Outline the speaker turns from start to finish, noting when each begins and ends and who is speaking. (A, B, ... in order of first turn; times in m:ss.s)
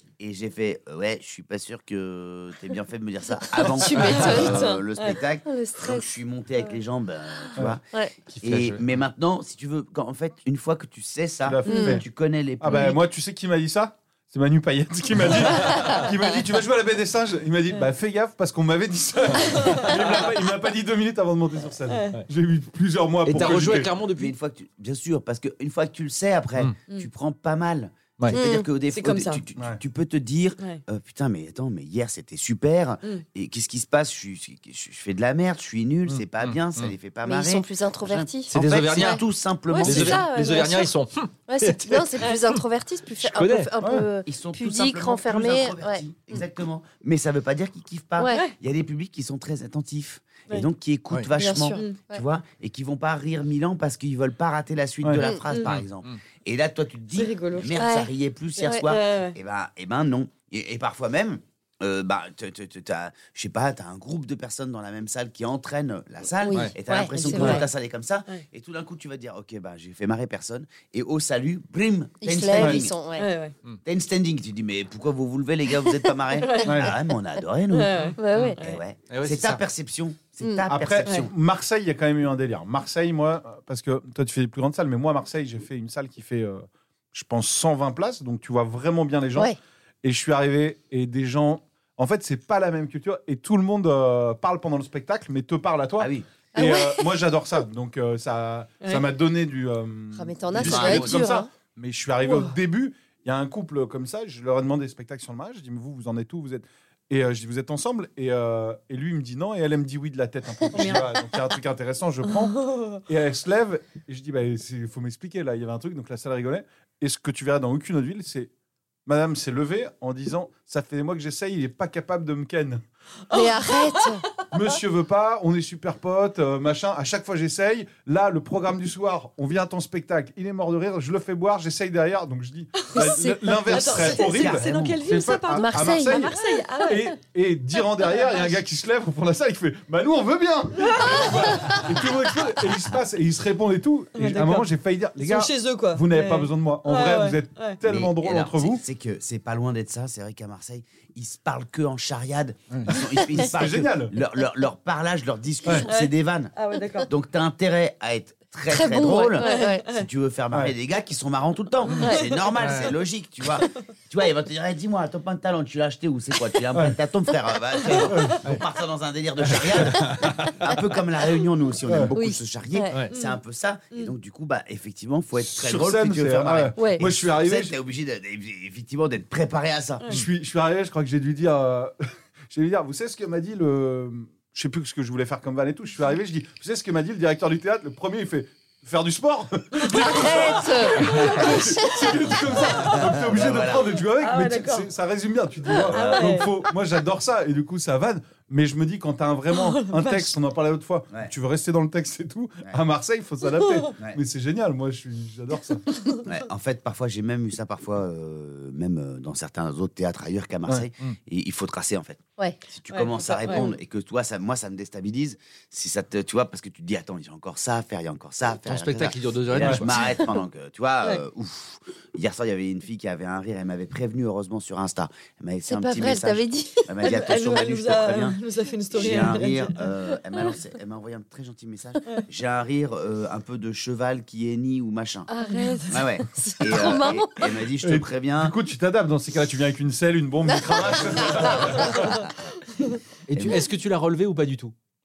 0:00.2-0:07.8 A
0:03.5-0:04.7 B
0:03.8-0:05.2 C
0:03.9-0:04.4 D
0:05.4-0:06.1 B
0:07.9-0:08.3 B
0:08.3-0:08.8 D
0:08.4-0:13.0 A
0:11.4-0:12.0 E
0:11.7-0:12.0 B
0:12.6-0:23.9 E
0:19.4-0:19.9 C
0:21.9-0:22.2 C
0:23.2-0:24.3 D
0:24.1-0:40.3 A
0:28.3-0:28.6 B
0:28.9-0:29.4 C
0:36.4-0:36.9 D
0:37.2-0:39.2 B
0:38.5-0:39.2 D
0:39.7-0:40.9 B
0:39.8-0:42.6 D
0:41.5-0:46.0 B
0:43.2-0:43.7 D
0:43.8-0:44.1 E
0:44.2-1:13.0 A
0:51.4-0:52.2 B
0:55.7-0:56.2 D
0:57.1-0:57.8 C
0:57.8-0:58.1 B
0:58.6-0:58.9 B
0:58.6-0:59.4 C
1:06.4-1:07.6 B
1:07.1-1:07.7 C
1:12.2-1:13.3 B
1:13.2-1:13.5 C
1:13.8-1:21.3 A
1:16.4-1:16.9 C
1:16.6-1:16.9 E
1:17.7-1:18.8 C
1:18.2-1:18.6 B
1:19.1-1:19.6 D
1:20.4-1:20.7 B
1:20.7-1:58.5 E
1:36.0-1:36.3 A
1:36.5-1:37.1 B
1:40.1-1:41.5 B
1:40.5-1:41.3 A
1:42.2-1:42.5 C
1:50.7-1:51.3 C
1:52.3-1:53.0 C
1:59.0-2:02.8 E
2:03.3-2:04.0 C
2:03.3-2:04.4 B
2:04.5-2:28.8 E
2:12.8-2:17.2 C
2:12.9-2:14.1 B
2:14.0-2:15.0 A
2:15.5-2:16.4 B
2:17.9-2:18.6 C
2:20.8-2:21.8 C
2:24.2-2:27.8 C
2:27.8-2:36.5 A
2:33.5-2:34.1 E
2:35.7-2:37.1 C
2:37.0-3:00.0 A
2:38.7-2:39.8 B
2:39.4-2:40.0 C
2:42.0-2:42.5 C
2:42.6-2:42.9 D
2:48.1-2:48.5 E
2:49.5-2:50.2 D
2:51.9-2:52.1 E
2:52.1-2:52.9 B
2:53.1-2:53.4 C
2:55.4-2:57.7 E
2:56.8-2:57.0 B
3:00.1-3:01.9 E
3:02.5-3:26.0 E
3:09.8-3:12.4 B
3:11.0-3:11.4 C
3:12.8-3:14.0 A
3:14.1-3:14.9 C
3:15.7-3:16.5 A
3:15.7-3:16.6 C
3:19.5-3:20.3 C
3:23.6-3:23.9 C
3:26.2-3:48.4 A
3:32.9-3:33.7 C
3:33.4-3:33.7 B
3:38.6-3:40.0 D
3:39.6-3:39.8 E
3:45.7-3:46.9 B
3:47.0-3:49.7 C
3:48.9-3:55.3 A
3:55.3-3:57.5 B
3:55.4-3:55.8 C
3:55.9-3:58.6 A
3:57.8-4:02.2 E
4:01.2-4:02.0 A
4:03.3-4:04.7 D
4:03.3-4:03.6 A